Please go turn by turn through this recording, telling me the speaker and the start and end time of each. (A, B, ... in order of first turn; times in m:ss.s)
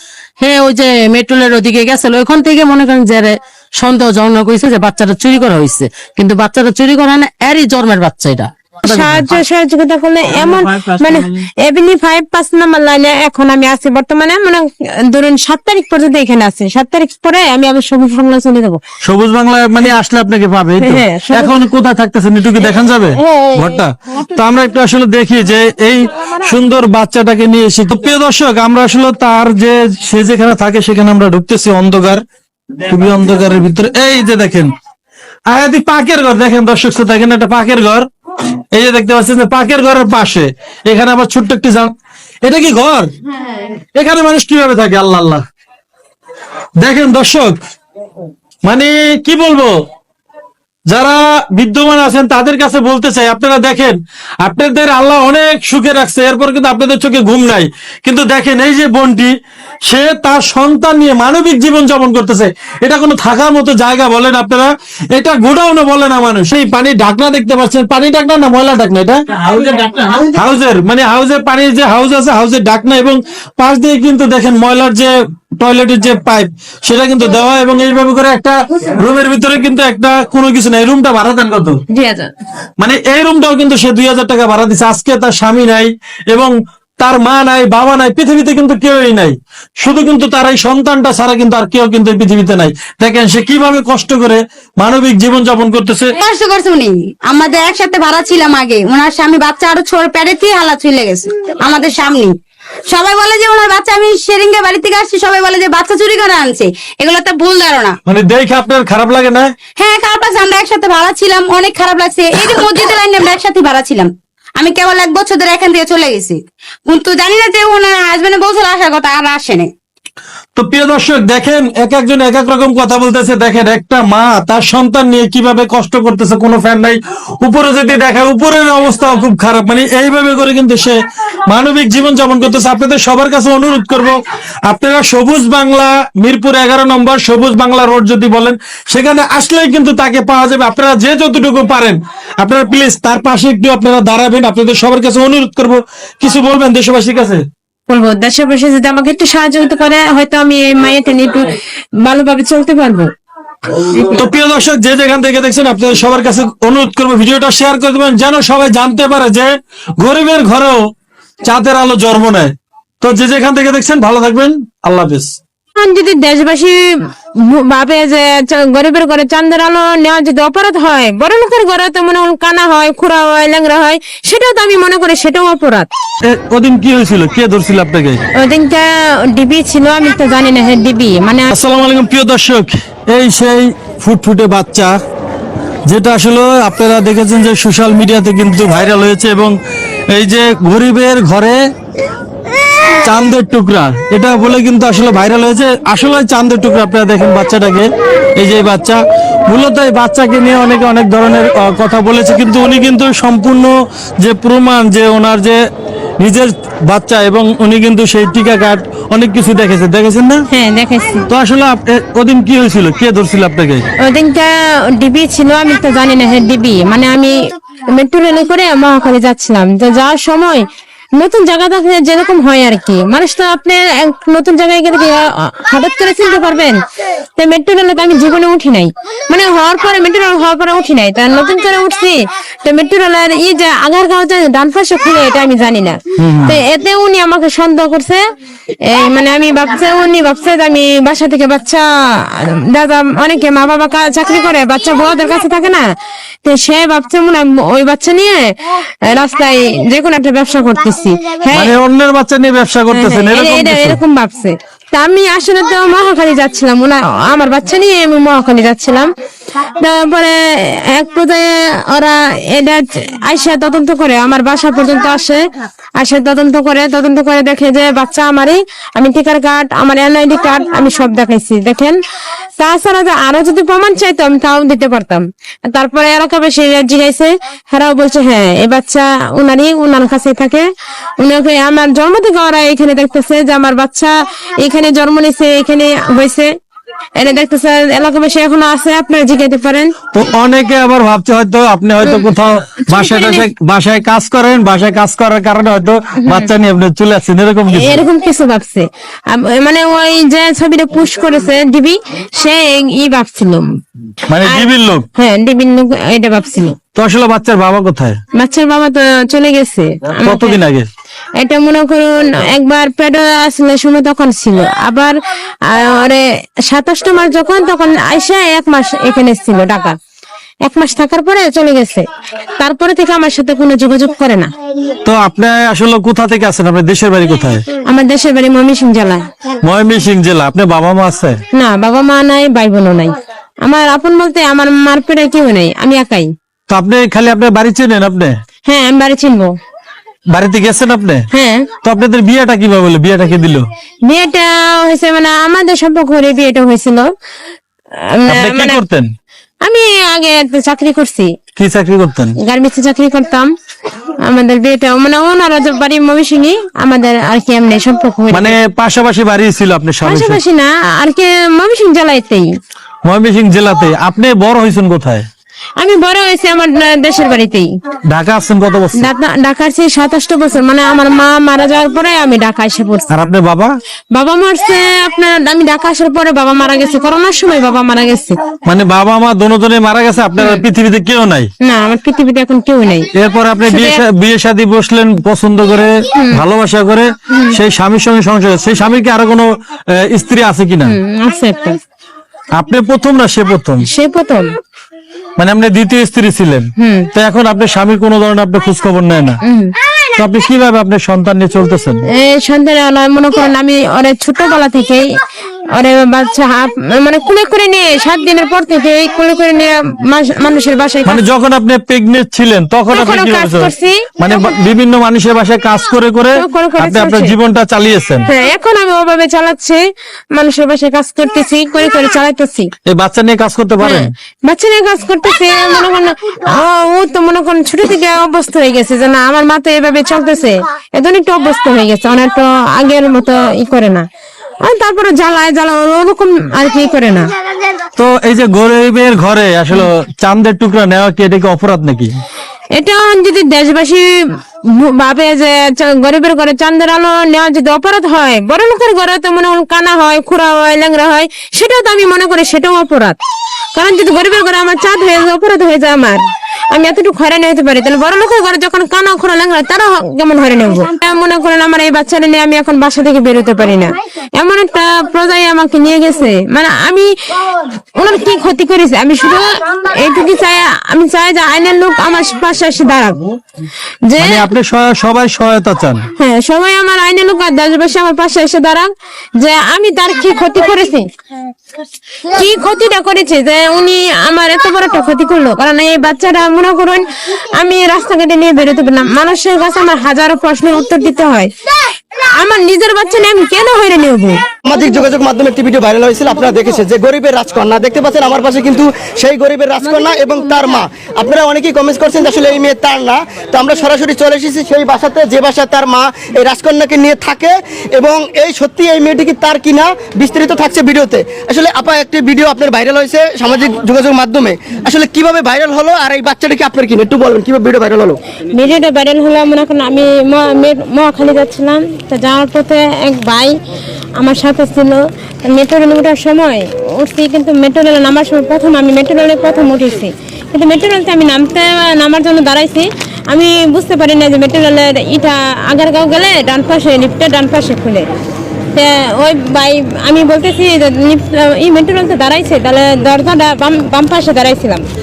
0:00.4-0:09.2 A
0:08.9-0:18.8 B
0:19.0-0:32.2 C
0:20.8-0:21.6 B
0:23.2-0:23.8 B
0:32.8-0:34.7 C
0:35.5-0:38.1 C
0:38.7-0:41.9 C
0:42.4-0:43.1 C
0:43.9-0:45.4 C
0:46.8-0:47.5 C
0:48.6-0:49.7 C
0:50.9-0:59.3 C
0:59.9-1:09.2 C
1:10.1-1:21.8 C
1:21.9-1:22.3 B
1:22.8-1:36.1 C
1:36.2-1:42.4 D
1:42.9-1:48.0 D
1:48.1-1:49.5 C
1:49.8-1:59.7 D
2:00.5-2:27.4 C
2:27.9-2:33.1 B
2:33.9-2:34.2 B
2:34.0-2:40.8 C
2:41.4-2:45.4 C
2:45.8-2:46.8 B
2:47.5-2:55.9 B
2:56.2-2:58.2 C
2:58.4-3:01.5 B
3:01.5-3:05.0 C
3:05.9-3:09.6 C
3:10.1-3:11.6 C
3:13.0-3:25.6 C
3:26.2-3:30.4 C
3:30.5-3:31.3 B
3:31.3-3:33.8 C
3:34.0-3:37.4 B
3:37.9-3:40.6 B
3:41.2-3:46.8 B
3:47.4-3:58.2 B
3:56.2-3:56.6 C
3:58.8-4:05.8 B
4:06.4-4:11.7 B
4:11.5-4:14.0 C
4:12.9-4:19.1 B
4:19.8-4:20.4 B
4:20.9-4:25.4 B
4:26.0-4:32.0 B
4:32.6-4:40.7 B
4:41.2-4:46.5 B
4:47.2-4:49.9 B
4:50.1-4:58.0 C
4:52.9-4:53.4 B
4:57.7-5:03.7 B
5:04.3-5:05.0 C
5:04.4-5:06.8 B
5:07.0-5:08.2 C
5:08.4-5:10.6 B
5:10.2-5:10.9 C
5:11.4-5:15.2 B
5:15.7-5:20.0 B
5:20.6-5:22.1 B
5:22.6-5:24.5 B
5:25.0-5:27.6 C
5:27.9-5:29.2 B
5:29.6-5:31.4 C
5:31.5-5:36.3 B
5:36.7-5:38.4 C
5:38.6-5:39.5 B
5:40.3-5:41.2 C
5:41.3-5:41.7 B
5:41.8-5:43.6 C
5:44.1-5:47.1 B
5:48.1-5:48.8 B
5:48.3-5:49.1 C
5:49.6-5:51.3 B
5:51.6-5:52.4 C
5:52.4-5:53.5 B
5:54.2-5:58.5 B
5:58.3-6:00.4 C
6:00.0-6:02.5 B
6:03.0-6:05.3 C
6:05.8-6:07.7 B
6:08.1-6:09.1 C
6:09.0-6:13.1 B
6:13.1-6:13.7 C
6:14.1-6:18.4 B
6:18.7-6:21.5 C
6:21.6-6:23.1 B
6:23.1-6:31.0 C
6:23.7-6:24.0 B
6:26.1-6:26.4 B
6:30.9-6:31.8 B
6:32.5-6:33.9 C
6:33.9-6:34.5 B
6:35.4-6:39.4 C
6:36.8-6:37.1 B
6:39.5-6:39.8 B
6:40.2-6:42.0 C
6:42.1-6:45.1 B
6:45.7-6:51.2 B
6:51.1-6:58.2 C
6:52.9-6:54.4 B
6:56.4-6:57.4 B
6:58.3-6:59.8 B
7:00.3-7:02.7 B
7:02.9-7:04.1 C
7:03.8-7:14.1 B
7:14.6-7:17.3 B
7:18.0-7:22.1 C
7:22.8-7:24.1 B
7:24.8-7:33.2 B
7:33.8-7:53.2 B
7:54.1-7:54.5 B
7:54.2-7:56.0 C
7:56.2-8:01.1 B
8:02.3-8:11.5 B
8:12.2-8:14.4 B
8:14.7-8:38.2 E
8:19.8-8:20.8 B
8:38.5-8:43.5 B
8:44.2-8:58.1 B
8:58.7-9:04.9 B